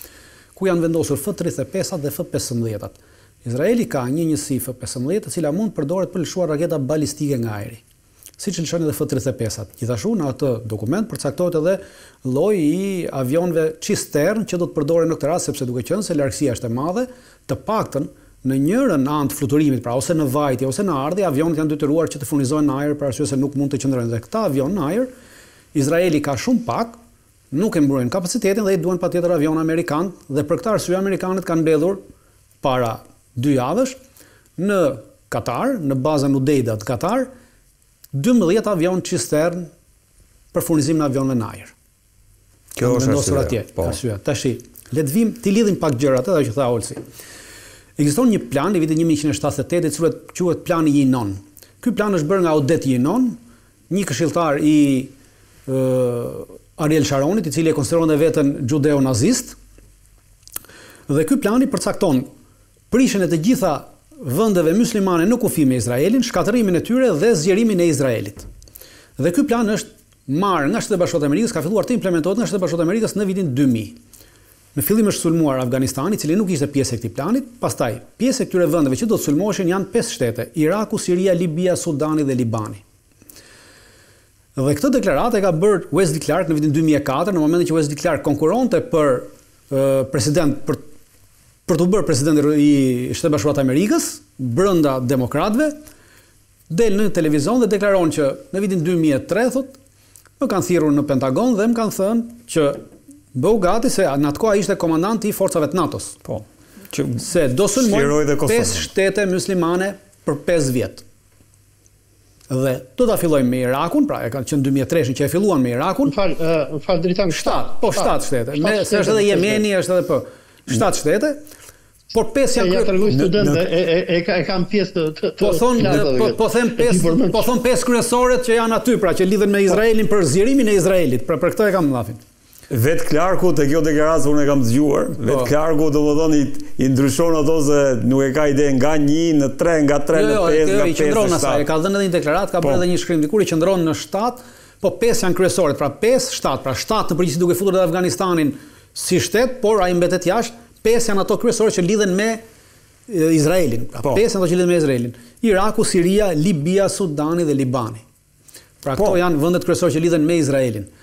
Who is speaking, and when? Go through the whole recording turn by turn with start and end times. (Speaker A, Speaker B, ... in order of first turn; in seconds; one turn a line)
Speaker A: 0.6-7.8
Speaker A: 8.4-25.1
Speaker A: 25.7-27.0
Speaker A: 27.5-32.0
Speaker A: 32.6-34.0
Speaker A: 34.6-37.3
Speaker A: 38.1-39.7
Speaker A: 40.5-41.8
Speaker B: 42.8-44.0
Speaker A: 42.8-47.0
Speaker A: 48.0-53.4
Speaker A: 53.9-55.1
Speaker A: 55.7-59.6
Speaker A: 61.1-62.3
Speaker A: 62.9-68.5
Speaker A: 69.2-74.0
Speaker A: 74.8-82.8
Speaker A: 84.6-90.8
Speaker A: 91.7-95.8
Speaker A: 96.7-99.8
Speaker A: 100.4-102.8
Speaker A: 103.3-106.2
Speaker B: 106.2-107.2
Speaker A: 107.2-111.0
Speaker B: 107.8-108.9
Speaker A: 112.5-116.2
Speaker C: 116.1-119.6
Speaker A: 117.3-121.4
Speaker A: 122.1-123.2
Speaker C: 122.6-127.5
Speaker B: 123.1-123.6
Speaker A: 125.4-132.2
Speaker B: 132.7-141.7
Speaker A: 135.2-135.5
Speaker A: 140.1-152.4
Speaker B: 142.6-142.8
Speaker A: 153.1-158.0
Speaker A: 158.8-160.9